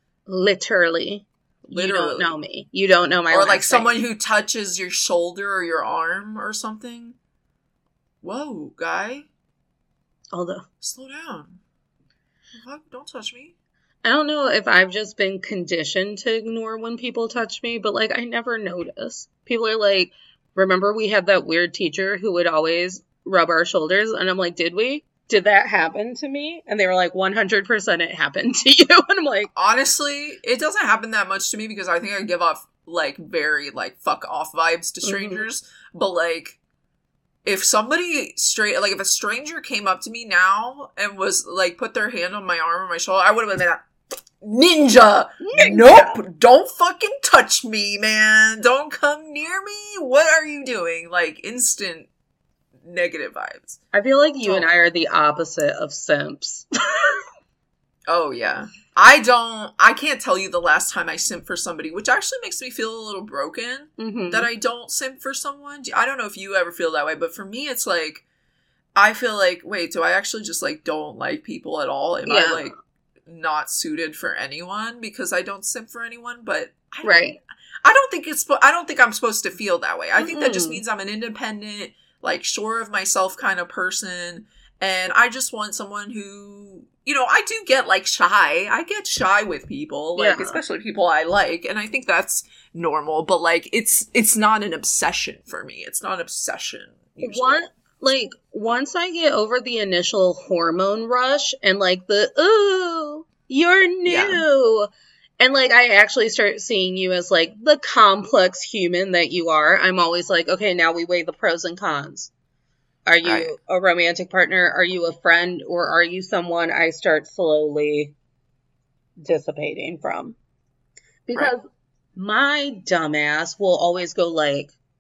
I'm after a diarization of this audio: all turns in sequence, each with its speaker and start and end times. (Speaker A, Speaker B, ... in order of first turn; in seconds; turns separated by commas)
Speaker A: 0.3-4.0, Speaker B: 1.7-2.4, Speaker B: 3.3-7.2, Speaker B: 8.2-9.3, Speaker A: 10.3-10.6, Speaker B: 10.8-11.6, Speaker B: 12.6-13.5, Speaker A: 14.0-29.5, Speaker B: 29.6-36.6, Speaker A: 35.0-35.4, Speaker B: 37.4-43.8, Speaker B: 44.4-52.1, Speaker A: 45.4-46.2, Speaker B: 52.8-53.8, Speaker A: 53.9-57.2, Speaker B: 54.4-54.7, Speaker B: 58.1-68.2, Speaker A: 64.0-64.5, Speaker B: 68.9-72.7, Speaker A: 72.2-72.7, Speaker B: 73.2-77.3, Speaker A: 77.0-77.4, Speaker B: 77.8-97.7, Speaker A: 80.2-80.8, Speaker A: 90.2-90.6, Speaker A: 97.2-112.3, Speaker B: 104.0-104.4, Speaker A: 113.1-118.1, Speaker B: 113.2-113.5, Speaker A: 119.2-120.3, Speaker A: 121.3-121.6, Speaker A: 122.2-124.7